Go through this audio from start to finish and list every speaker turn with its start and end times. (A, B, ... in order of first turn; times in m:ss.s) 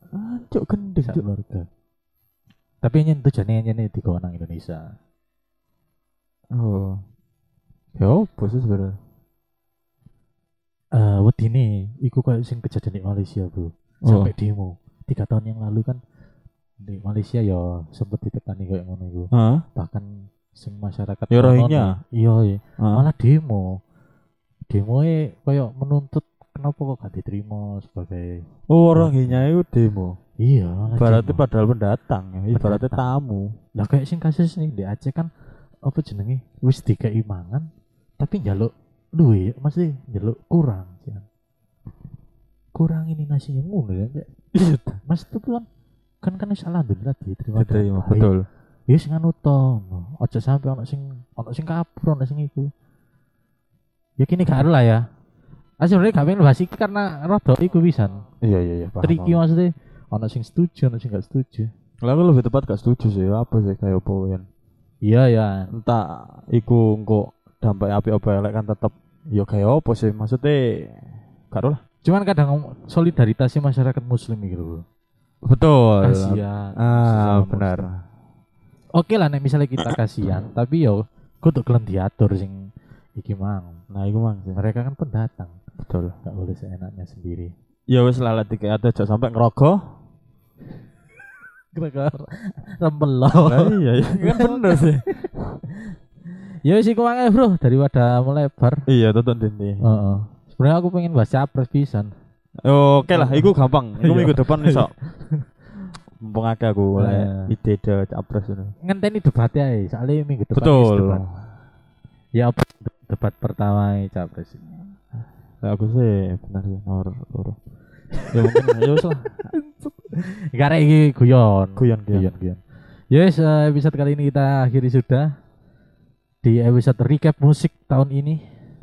0:00.1-0:01.2 A
0:01.0-0:01.6 B
0:02.8-0:04.9 B
0:06.5-0:07.0 A
0:08.0-0:09.0 A
0:10.9-0:16.0 B
0:14.0-0:14.3 A
0:16.8-0:23.8 B
0:19.3-0:19.6 A
0:21.3-0:22.0 A
0:22.8-0:23.0 A
0:24.7-0:29.4 B
0:28.7-0:30.2 A
0:30.4-0:31.4 B
0:31.0-0:33.5 A
0:32.6-0:33.1 B
0:33.7-0:35.3 B
0:35.8-0:37.7 B
0:38.2-0:41.2 B
0:42.7-0:44.3 B
0:44.5-0:45.0 A
0:45.1-0:45.6 B
0:46.2-0:48.3 B
0:47.6-0:48.4 A
0:48.9-0:52.7 B
0:54.2-0:55.0 B
0:55.8-0:58.2 B
0:58.4-0:59.4 A
0:59.0-1:01.7 B
1:02.0-1:04.4 A
1:05.0-1:05.7 B
1:05.7-1:10.9 A
1:11.5-1:11.8 A
1:12.0-1:14.8 B
1:15.4-1:17.9 A
1:16.0-1:17.8 B
1:18.9-1:23.8 B
1:23.9-1:24.6 A
1:24.5-1:25.6 B
1:25.8-1:26.2 A
1:26.2-1:27.5 B
1:27.9-1:29.8 A
1:31.7-1:35.9 B
1:33.4-1:35.6 A
1:36.6-1:38.8 B
1:38.9-1:39.8 A
1:39.8-1:42.1 B
1:42.6-1:44.9 A
1:43.1-1:45.4 B
1:46.2-1:48.7 A
1:47.0-1:47.5 B
1:48.8-1:51.2 B
1:50.6-1:51.3 A
1:52.3-1:54.6 B
1:55.6-1:57.6 A
1:58.2-1:58.8 B
1:58.3-1:59.5 A
1:59.5-2:02.6 B
2:01.8-2:02.3 A
2:03.1-2:05.3 B
2:06.4-2:08.4 B